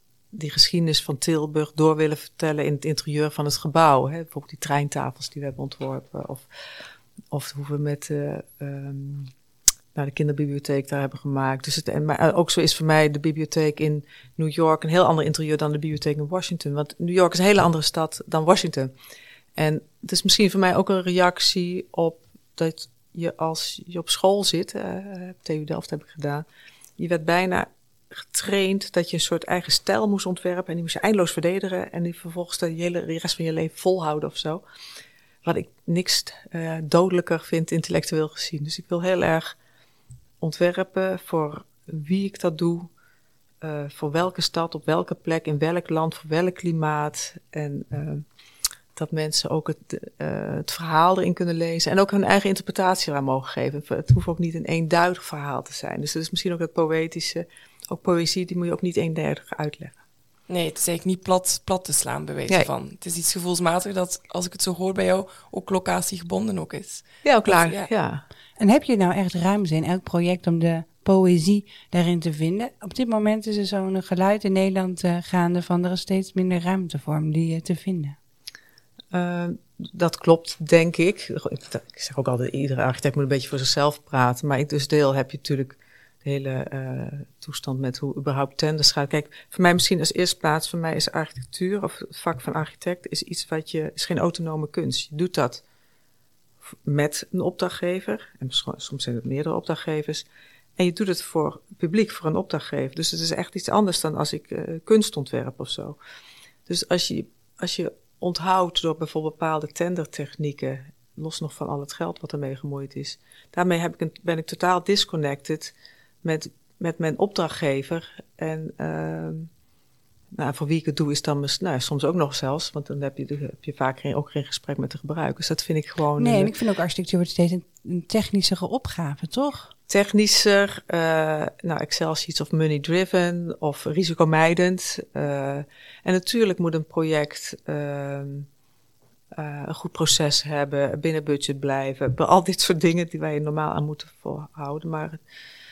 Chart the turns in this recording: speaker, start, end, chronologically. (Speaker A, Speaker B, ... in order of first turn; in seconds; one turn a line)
Speaker A: 0.3-9.3
Speaker A: 9.9-18.9
Speaker A: 19.6-26.4
Speaker A: 27.0-34.6
Speaker A: 35.4-39.6
Speaker A: 40.4-42.9
Speaker A: 43.6-48.2
Speaker A: 48.9-60.0
Speaker B: 60.5-67.9
Speaker A: 67.2-68.2
Speaker C: 68.6-78.2
Speaker A: 79.1-95.6
Speaker A: 96.7-100.2
Speaker A: 100.8-106.0
Speaker A: 106.7-119.5
Speaker A: 120.3-126.5
Speaker C: 126.2-129.7
Speaker A: 129.9-138.5
Speaker A: 139.3-145.2